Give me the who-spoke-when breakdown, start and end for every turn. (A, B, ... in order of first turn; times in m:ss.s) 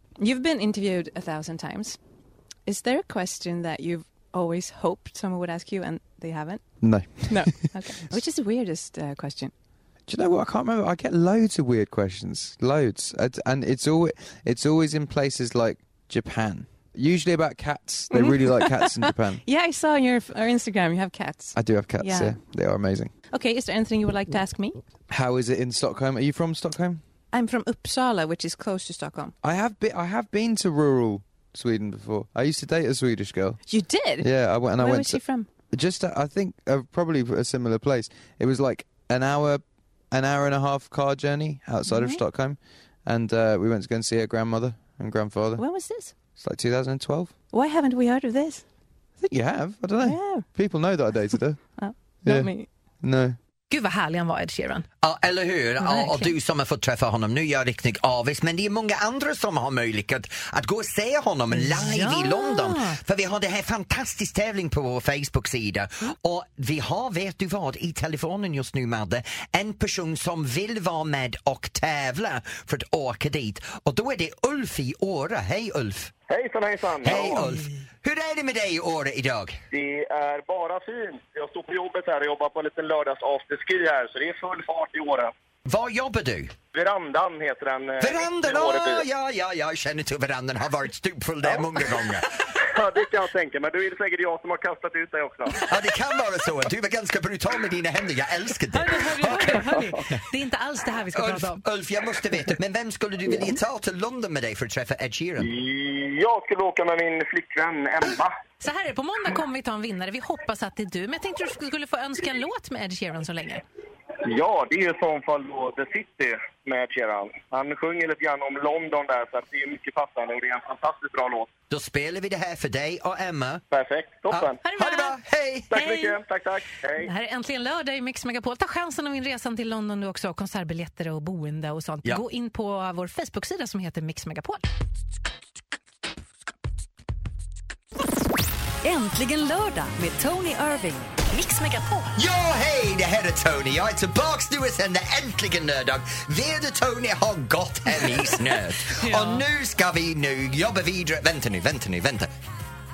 0:00.2-0:02.0 A
0:02.6-0:09.5 A
0:06.8-0:08.2 B
0:10.1-0:19.4 B
0:18.1-0:22.3 A
0:21.5-0:23.1 B
0:23.3-0:24.8 A
0:25.1-0:27.0 B
0:27.3-0:29.3 A
0:29.4-0:33.6 B
0:33.7-0:35.5 A
0:34.2-0:45.7 B
0:41.9-0:42.2 A
0:45.6-0:46.1 A
0:46.3-0:47.3 B
0:47.5-0:48.6 A
0:49.2-0:51.6 B
0:50.0-0:50.4 A
0:51.8-0:52.7 A
0:52.2-0:53.4 B
0:53.7-0:54.9 C
0:55.0-1:16.1 D
0:55.8-0:56.3 C
1:01.5-1:03.0 C
1:16.3-1:17.5 E
1:17.0-1:19.6 D
1:19.7-1:25.3 E
1:25.7-1:26.5 D
1:26.7-1:29.0 E
1:28.0-1:32.3 D
1:32.6-1:35.7 E
1:35.6-1:39.8 D
1:38.7-1:41.6 C
1:41.1-1:45.5 D
1:45.4-1:48.4 E
1:48.6-1:53.6 C
1:54.2-2:01.5 E
2:01.7-2:03.6 D
2:03.7-2:04.6 E
2:04.3-2:05.7 D
2:04.6-2:05.2 C
2:05.7-2:07.1 E
2:05.7-2:06.2 C
2:07.0-2:14.6 C
2:18.8-2:22.1 F
2:22.2-2:32.3 D
2:28.8-2:29.4 C